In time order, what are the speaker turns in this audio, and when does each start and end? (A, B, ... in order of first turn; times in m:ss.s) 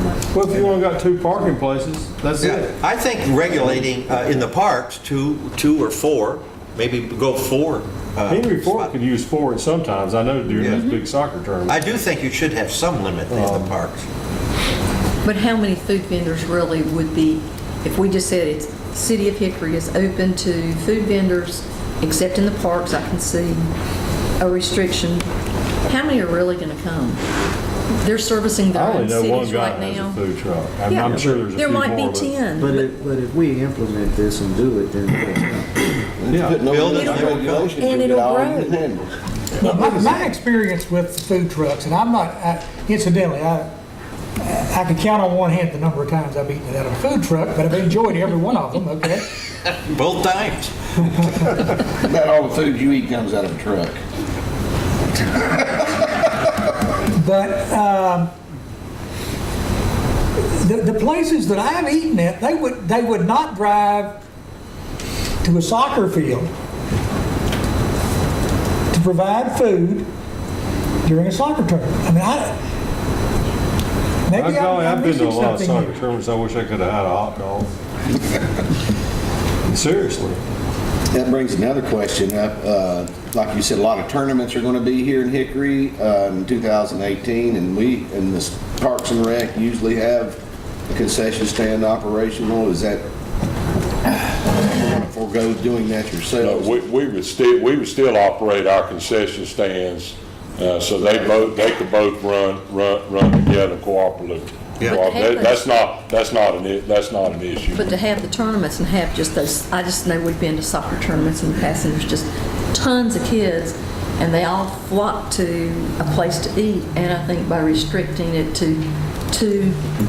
0:00.3-0:02.7 A
0:02.4-0:08.9 B
0:08.3-0:12.0 A
0:10.6-0:10.8 B
0:10.6-0:11.0 C
0:11.7-0:14.0 B
0:13.3-0:13.8 A
0:15.2-0:23.7 C
0:24.4-0:25.3 C
0:25.8-0:27.2 C
0:28.0-0:30.2 C
0:28.7-0:32.3 A
0:30.9-0:32.9 C
0:31.0-0:31.4 D
0:32.6-0:35.8 D
0:36.2-0:39.1 E
0:36.3-0:36.6 A
0:36.6-0:37.1 F
0:36.7-0:37.7 B
0:36.9-0:38.8 C
0:39.6-0:43.8 G
0:44.4-0:49.3 G
0:49.9-0:50.7 B
0:52.0-0:54.0 E
0:55.3-0:56.0 E
0:57.1-0:58.3 G
1:00.4-1:04.2 G
1:05.4-1:06.5 G
1:08.9-1:10.1 G
1:11.0-1:12.6 G
1:14.2-1:16.0 G
1:14.3-1:17.7 A
1:19.6-1:20.4 A
1:21.1-1:30.4 E
1:30.9-1:33.0 E
1:34.1-1:36.8 E
1:36.4-1:47.8 F
1:44.8-1:45.6 C
1:47.7-1:59.8 C